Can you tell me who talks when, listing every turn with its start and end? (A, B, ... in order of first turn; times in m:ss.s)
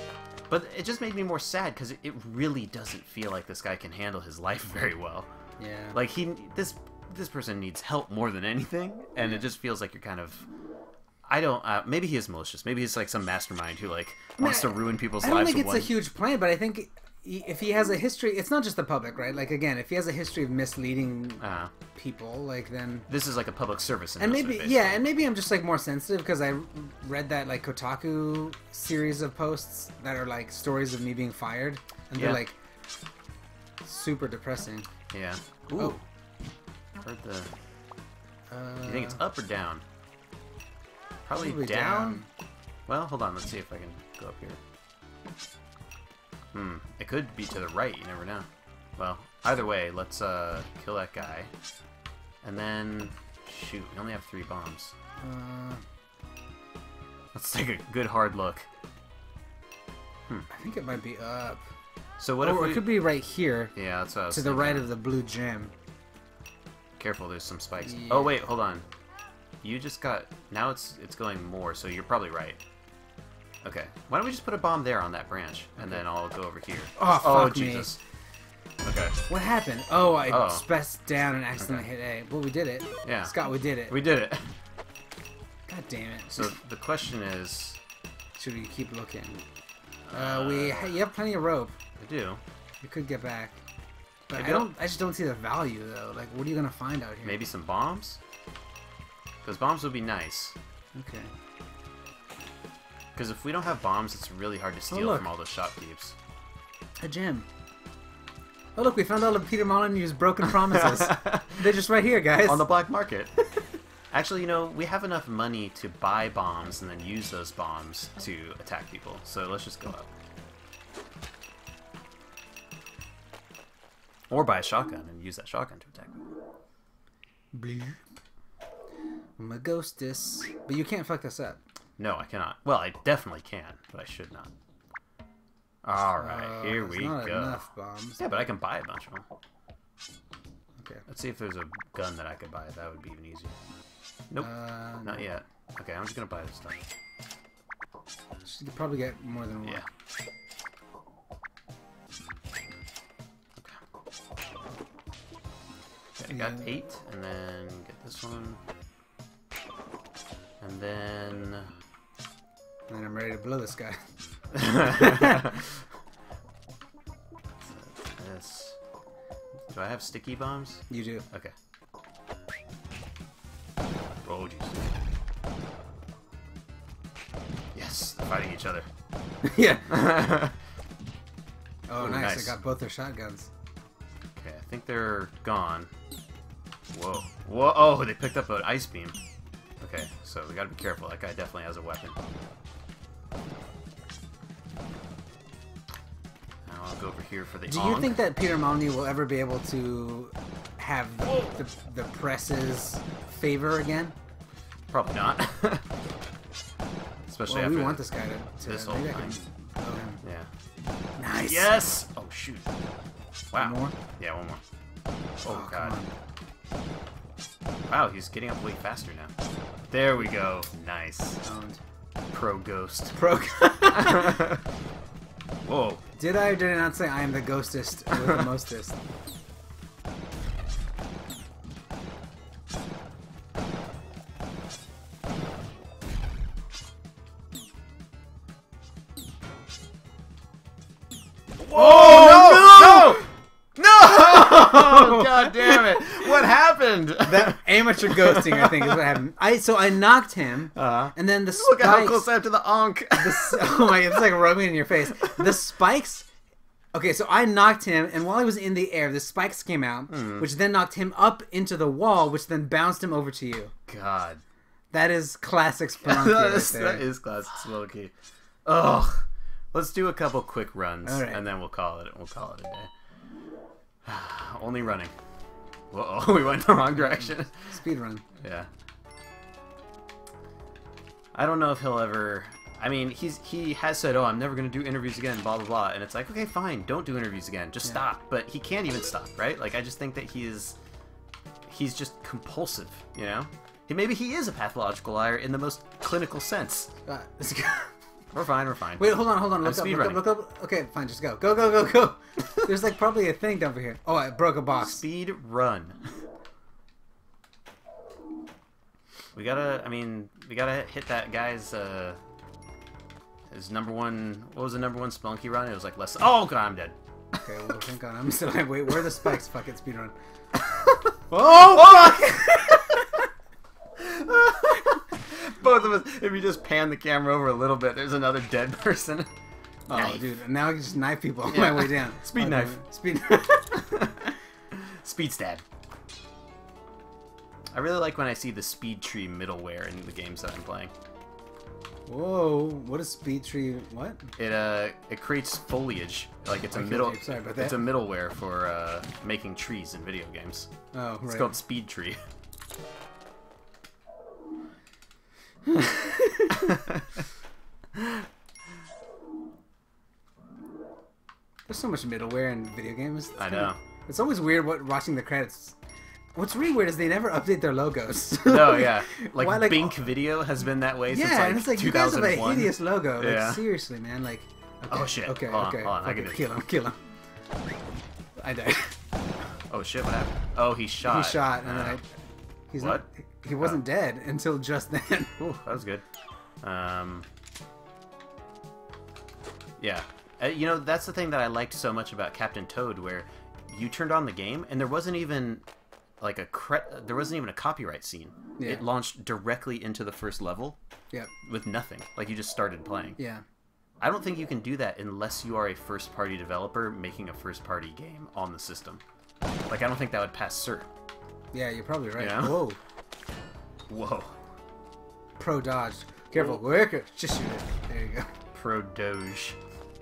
0:00.5-0:05.3 A
0:05.6-0:06.0 B
0:05.9-0:10.4 A
0:11.2-0:15.9 A
0:14.4-0:21.4 B
0:21.4-0:21.7 A
0:21.9-0:23.1 B
0:23.1-0:25.0 A
0:24.2-0:32.6 B
0:32.1-0:32.4 A
0:33.8-0:34.9 B
0:35.1-0:36.0 A
0:37.0-0:37.5 A
0:38.5-0:39.2 B
0:38.8-0:39.8 A
0:41.2-0:42.2 A
0:41.4-0:42.3 B
0:42.9-0:44.6 A
0:46.5-0:51.5 A
0:52.4-0:54.9 A
0:55.2-0:55.8 B
0:57.3-0:58.7 A
1:00.5-1:01.6 B
1:02.2-1:02.9 A
1:02.4-1:03.7 B
1:03.7-1:04.9 A
1:04.3-1:05.7 B
1:07.0-1:08.8 A
1:07.8-1:08.3 B
1:09.6-1:12.6 A
1:13.6-1:18.0 A
1:17.0-1:17.9 B
1:18.8-1:19.2 A
1:19.3-1:24.0 B
1:20.3-1:20.6 A
1:21.6-1:21.8 A
1:23.0-1:23.3 A
1:23.9-1:24.5 A
1:25.7-1:26.6 B
1:26.3-1:27.8 A
1:28.4-1:29.4 B
1:30.1-1:30.9 A
1:30.1-1:31.8 B
1:32.0-1:32.4 A
1:32.8-1:33.6 B
1:34.3-1:37.4 B
1:34.3-1:34.7 A
1:37.2-1:38.2 A
1:39.4-1:40.6 A
1:40.9-1:41.3 B
1:43.1-1:46.2 A
1:44.9-1:45.2 B
1:47.0-1:47.5 B
1:48.8-1:52.7 B
1:50.6-1:51.6 A
1:52.4-1:53.3 A
1:54.1-2:00.1 A
2:04.3-2:06.2 A
2:07.5-2:08.0 B
2:09.4-2:11.6 B
2:12.0-2:14.5 A
2:15.8-2:17.6 A
2:16.2-2:18.2 B
2:18.2-2:19.2 A
2:20.8-2:21.0 B
2:21.1-2:23.6 A
2:24.4-2:25.2 B
2:25.0-2:26.9 A
2:28.4-2:29.8 B
2:33.6-2:33.8 A
2:36.2-2:38.6 A
2:36.3-2:36.7 B
2:40.6-2:41.7 A
2:42.9-2:44.0 B
2:44.5-2:45.7 A
2:44.6-2:45.6 B
2:47.6-2:48.8 A
2:49.7-2:51.5 A
2:50.9-2:51.2 B
2:54.2-2:55.0 A
2:57.7-2:58.9 A
2:59.4-3:00.1 B
2:59.9-3:00.6 A
3:01.9-3:03.5 B
3:02.0-3:02.6 A
3:04.4-3:05.9 A
3:06.9-3:09.2 A
3:09.8-3:12.2 A
3:16.6-3:18.2 A
3:17.7-3:24.1 B
3:24.9-3:25.9 A
3:27.3-3:28.0 A
3:27.5-3:30.2 B
3:28.6-3:29.4 A
3:30.2-3:30.5 A
3:31.2-3:31.7 B
3:31.4-3:32.7 A
3:33.5-3:34.6 A
3:33.5-3:34.0 B
3:35.4-3:36.0 A
3:35.5-3:36.1 B
3:37.9-3:39.3 A
3:39.9-3:41.4 A
3:41.4-3:41.8 B
3:42.3-3:43.2 A
3:43.1-3:44.5 B
3:43.9-3:44.6 A
3:45.6-3:46.0 A
3:46.1-3:49.0 B
3:48.2-3:48.4 A
4:01.6-4:09.1 A
4:01.7-4:03.2 B
4:04.0-4:06.0 B
4:07.2-4:12.2 B
4:10.7-4:14.2 A
4:13.2-4:16.3 B
4:16.9-4:23.7 B
4:20.1-4:20.4 A
4:23.9-4:24.4 A
4:24.9-4:27.0 B
4:26.0-4:28.1 A
4:28.6-4:32.9 A
4:31.0-4:31.4 B
4:34.0-4:35.1 A
4:35.9-4:37.5 A
4:37.0-4:38.2 B
4:38.4-4:38.7 A
4:41.3-4:50.8 A
4:51.7-4:56.9 A
4:57.0-4:57.9 B
4:58.3-5:00.4 A
4:59.0-5:05.0 B
5:04.8-5:06.2 A
5:09.3-5:12.2 A
5:13.5-5:17.0 A
5:17.4-5:20.1 B
5:20.6-5:23.0 A
5:21.3-5:23.2 B
5:24.0-5:29.3 A
5:29.9-5:34.1 B
5:29.9-5:30.2 A
5:31.4-5:32.8 A
5:33.7-5:34.2 A
5:34.7-5:35.6 A
5:37.7-5:40.9 A
5:42.1-5:44.3 B
5:44.4-5:50.7 A
5:46.7-5:47.8 B
5:50.9-5:51.5 B
5:51.3-5:52.2 A
5:55.6-5:56.7 B
5:56.5-5:57.2 A
6:01.7-6:05.8 B
6:03.4-6:03.8 A
6:06.3-6:10.0 B
6:08.4-6:13.6 A
6:11.1-6:17.0 B
6:14.9-6:16.4 A
6:18.4-6:18.9 B
6:19.7-6:22.0 A
6:21.0-6:22.0 B
6:22.7-6:25.3 B
6:22.8-6:23.0 A
6:25.4-6:26.0 A
6:26.6-6:27.3 A
6:29.8-6:35.6 A
6:36.2-6:40.8 A
6:38.6-6:38.8 B
6:41.4-6:43.2 A
6:43.2-6:43.4 B
6:44.0-6:49.0 A
6:49.7-6:50.9 A
6:51.5-6:52.8 B
6:52.2-6:52.6 A
6:53.9-6:54.3 A
6:55.4-6:58.3 B
6:58.5-6:59.6 A